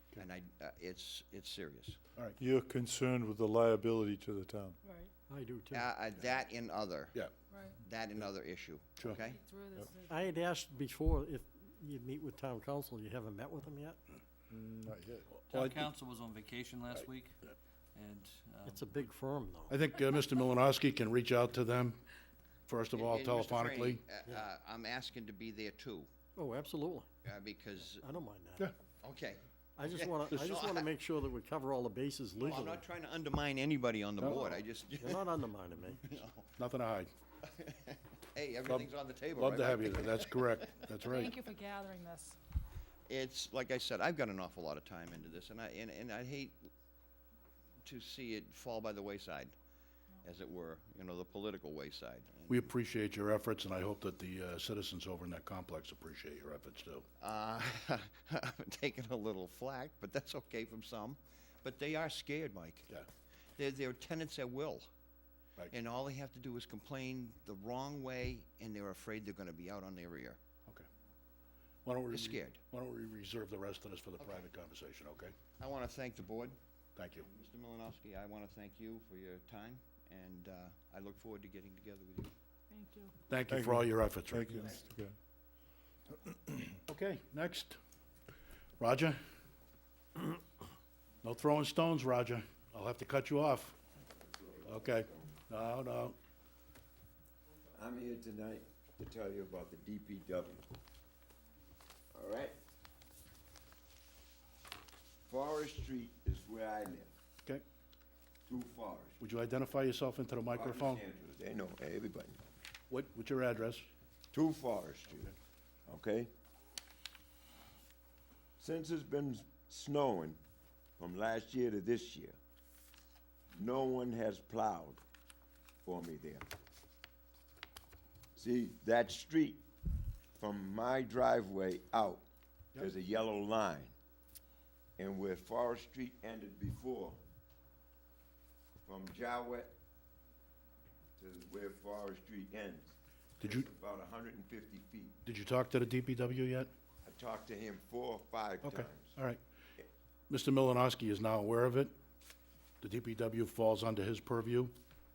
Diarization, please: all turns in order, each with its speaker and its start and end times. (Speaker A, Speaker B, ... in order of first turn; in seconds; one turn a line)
Speaker A: 0.2-2.0
Speaker B: 2.4-4.8
Speaker C: 4.8-5.1
Speaker D: 5.3-5.9
Speaker A: 5.7-7.2
Speaker C: 7.5-7.8
Speaker A: 7.8-9.4
Speaker C: 9.2-10.4
Speaker D: 10.1-14.0
Speaker B: 14.5-15.3
Speaker E: 15.5-17.4
Speaker E: 17.9-18.9
Speaker D: 18.7-19.8
Speaker F: 19.7-22.0
Speaker F: 22.7-24.0
Speaker A: 22.9-26.1
Speaker D: 26.4-27.1
Speaker A: 27.2-28.1
Speaker D: 28.0-28.7
Speaker A: 29.0-31.0
Speaker D: 29.8-32.9
Speaker A: 32.4-35.3
Speaker F: 34.2-34.5
Speaker D: 34.2-36.1
Speaker A: 36.0-36.5
Speaker F: 36.6-37.1
Speaker A: 37.4-40.4
Speaker F: 38.7-41.3
Speaker C: 41.0-42.4
Speaker A: 43.1-46.7
Speaker A: 47.8-49.5
Speaker A: 50.2-52.7
Speaker F: 52.5-57.0
Speaker A: 57.2-62.9
Speaker A: 63.6-64.9
Speaker A: 65.7-70.4
Speaker F: 71.8-75.3
Speaker A: 72.1-72.6
Speaker A: 74.2-74.5
Speaker A: 75.6-76.6
Speaker F: 77.0-77.3
Speaker A: 77.2-82.3
Speaker C: 82.7-83.1
Speaker F: 83.3-84.7
Speaker B: 83.5-85.2
Speaker F: 86.5-87.8
Speaker F: 88.8-89.2
Speaker F: 91.2-93.8
Speaker G: 94.2-95.3
Speaker F: 94.7-96.2
Speaker G: 97.8-100.7
Speaker G: 102.1-102.6
Speaker G: 105.3-107.1
Speaker G: 108.5-109.2
Speaker F: 109.2-111.0
Speaker G: 110.5-112.4
Speaker F: 112.9-113.9
Speaker G: 114.3-115.3
Speaker G: 115.9-116.3
Speaker G: 118.6-120.4
Speaker G: 121.0-122.4
Speaker G: 123.5-125.0
Speaker G: 125.9-126.5
Speaker G: 128.4-129.6
Speaker G: 130.4-132.2
Speaker G: 132.8-133.9
Speaker G: 135.0-137.2
Speaker G: 138.8-139.8
Speaker G: 141.2-145.2
Speaker F: 143.4-143.7
Speaker F: 145.2-146.7
Speaker G: 147.1-149.2
Speaker F: 148.6-149.4
Speaker F: 150.3-151.9
Speaker F: 152.8-154.8